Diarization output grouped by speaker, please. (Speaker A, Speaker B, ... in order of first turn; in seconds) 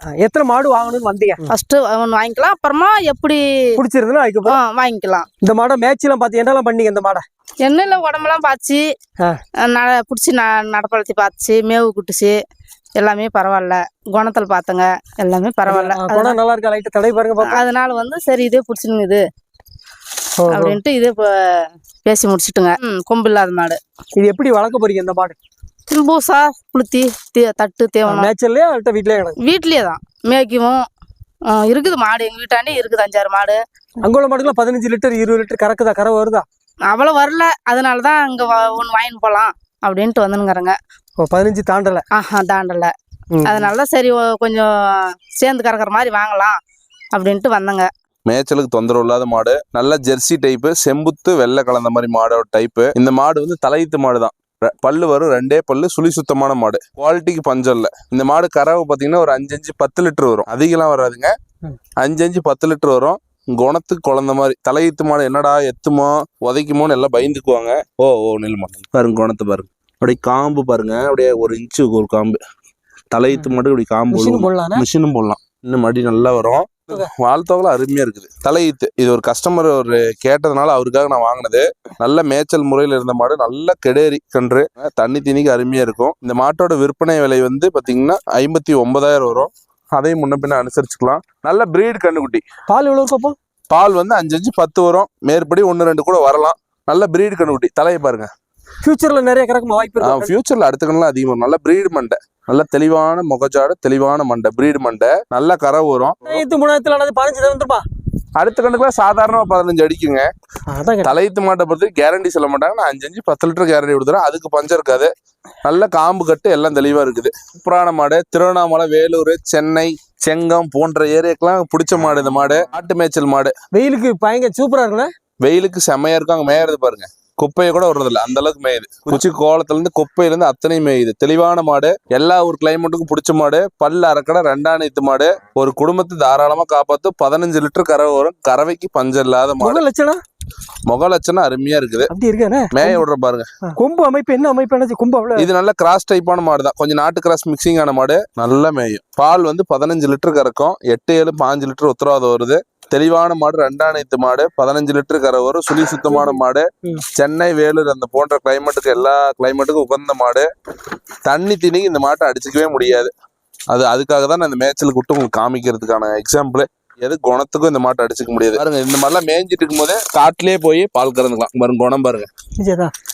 Speaker A: 0.2-1.5, 3.8-4.6, 5.4-7.2, 15.6-17.6, 20.4-20.8, 24.2-25.4, 28.1-29.4, 34.0-36.5, 41.2-42.0, 43.4-43.7, 74.1-74.8, 92.7-93.4, 98.8-100.3, 106.2-107.8, 110.7-111.1, 123.7-125.1, 139.6-140.2, 142.1-143.0, 143.8-145.5, 172.6-172.9
Speaker B: 1.5-3.4, 4.5-5.3, 7.6-8.8, 9.6-12.4, 13.0-16.4, 17.5-19.2, 20.5-23.8, 25.9-28.3, 29.4-30.8, 31.5-33.6, 36.9-40.8, 42.1-42.9, 43.5-46.6, 47.1-47.9
Speaker C: 48.2-61.3, 62.0-72.4, 73.1-92.4, 93.7-98.3, 100.0-106.4, 108.4-110.3, 111.0-115.1, 115.6-123.5, 125.4-139.8, 140.9-142.1, 142.7-143.5, 145.4-160.5, 161.2-163.1, 163.7-172.3